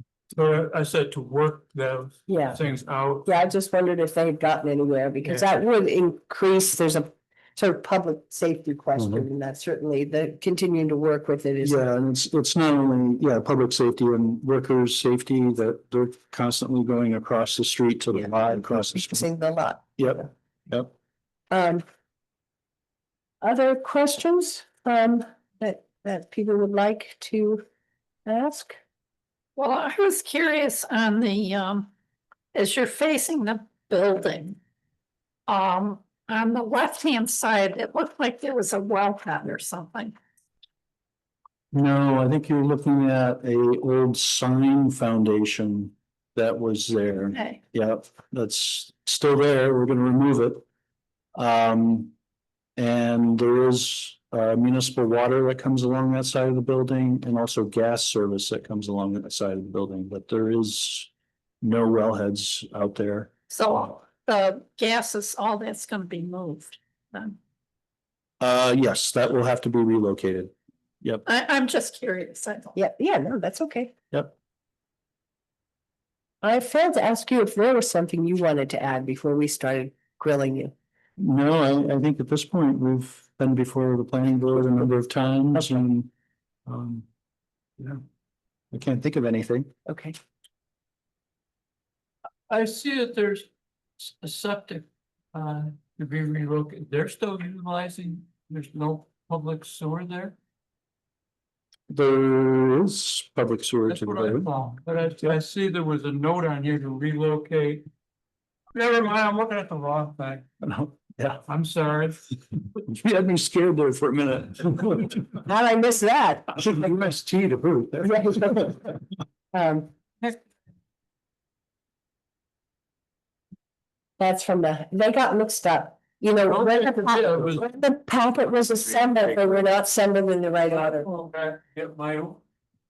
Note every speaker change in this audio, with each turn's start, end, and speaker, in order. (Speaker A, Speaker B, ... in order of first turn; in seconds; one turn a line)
Speaker A: 0.3-3.3
Speaker B: 2.3-2.6
Speaker B: 3.2-11.8
Speaker C: 11.6-19.2
Speaker B: 18.1-20.3
Speaker C: 20.0-20.9
Speaker B: 21.5-21.8
Speaker B: 23.4-27.6
Speaker B: 28.2-28.8
Speaker D: 29.6-31.9
Speaker D: 32.5-34.6
Speaker D: 35.5-40.1
Speaker C: 41.7-50.6
Speaker D: 47.3-47.6
Speaker C: 51.4-52.1
Speaker C: 52.8-61.1
Speaker C: 61.6-63.3
Speaker D: 63.5-67.4
Speaker C: 68.4-71.2
Speaker D: 71.2-72.7
Speaker B: 72.8-73.9
Speaker B: 76.4-80.7
Speaker C: 81.2-86.1
Speaker C: 86.7-87.0
Speaker C: 88.7-89.7
Speaker B: 89.8-90.2
Speaker A: 92.5-93.5
Speaker A: 94.0-100.3
Speaker C: 101.9-104.5
Speaker A: 103.9-107.8
Speaker A: 108.7-110.5
Speaker C: 110.6-111.4
Speaker A: 111.5-112.3
Speaker C: 112.9-115.4
Speaker B: 115.4-116.7
Speaker C: 116.5-118.9
Speaker B: 118.0-118.8
Speaker B: 119.5-119.9
Speaker B: 124.2-131.1
Speaker A: 126.5-127.6
Speaker A: 130.7-132.4